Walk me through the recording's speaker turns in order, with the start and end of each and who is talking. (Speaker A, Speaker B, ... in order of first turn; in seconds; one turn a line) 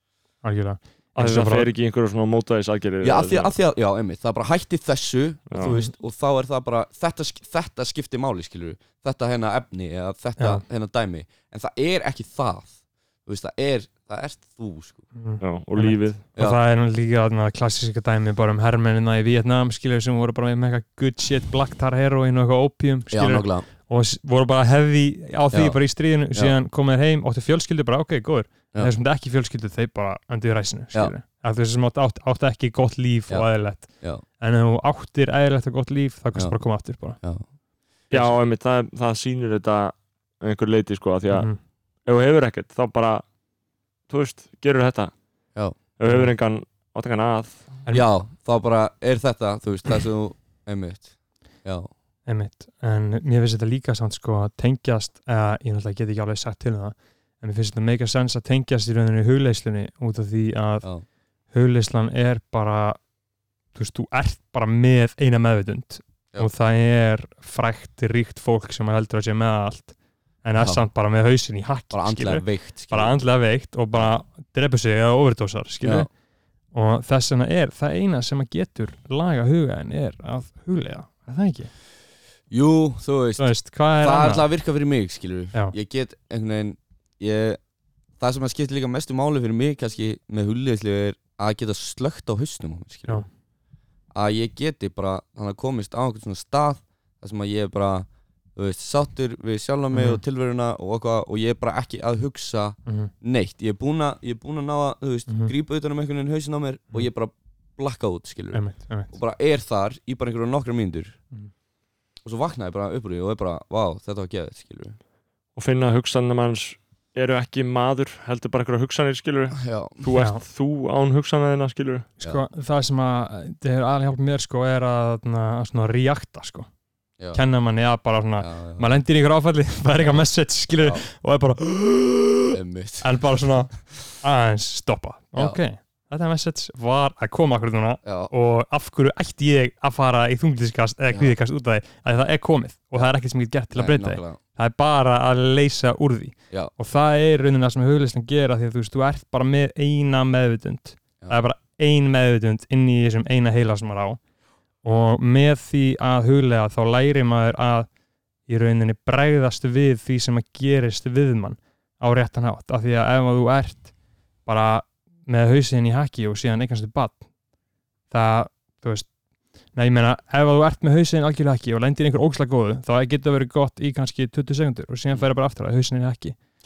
Speaker A: 0.4-1.7
Speaker B: 1.2-3.5
Speaker C: 3.0-15.0
Speaker B: 5.5-5.8
Speaker A: 5.7-5.9
Speaker A: 10.4-10.6
Speaker A: 15.2-37.2
Speaker B: 15.4-16.2
Speaker C: 23.1-23.7
Speaker C: 25.5-25.8
Speaker C: 33.3-34.2
Speaker B: 38.1-41.5
Speaker A: 41.3-41.6
Speaker B: 42.1-43.2
Speaker B: 44.1-45.1
Speaker B: 46.0-47.7
Speaker C: 47.9-51.9
Speaker A: 52.3-60.9
Speaker A: 61.5-63.0
Speaker A: 63.7-76.1
Speaker C: 70.6-70.8
Speaker C: 71.9-73.2
Speaker C: 75.8-76.1
Speaker A: 76.7-81.7
Speaker C: 82.5-87.6
Speaker A: 83.4-84.5
Speaker C: 88.2-93.2
Speaker C: 94.1-111.2
Speaker A: 99.9-100.2
Speaker A: 102.9-103.1
Speaker A: 108.5-109.1
Speaker C: 112.2-115.0
Speaker B: 115.6-122.1
Speaker C: 119.6-120.0
Speaker A: 120.2-120.4
Speaker A: 122.2-126.7
Speaker A: 127.3-154.2
Speaker C: 128.4-128.9
Speaker C: 130.8-131.0
Speaker C: 132.5-133.1
Speaker C: 138.0-138.3
Speaker C: 143.7-144.4
Speaker A: 154.8-157.9
Speaker A: 158.5-163.9
Speaker A: 164.5-167.3
Speaker A: 168.1-169.1
Speaker A: 169.7-176.4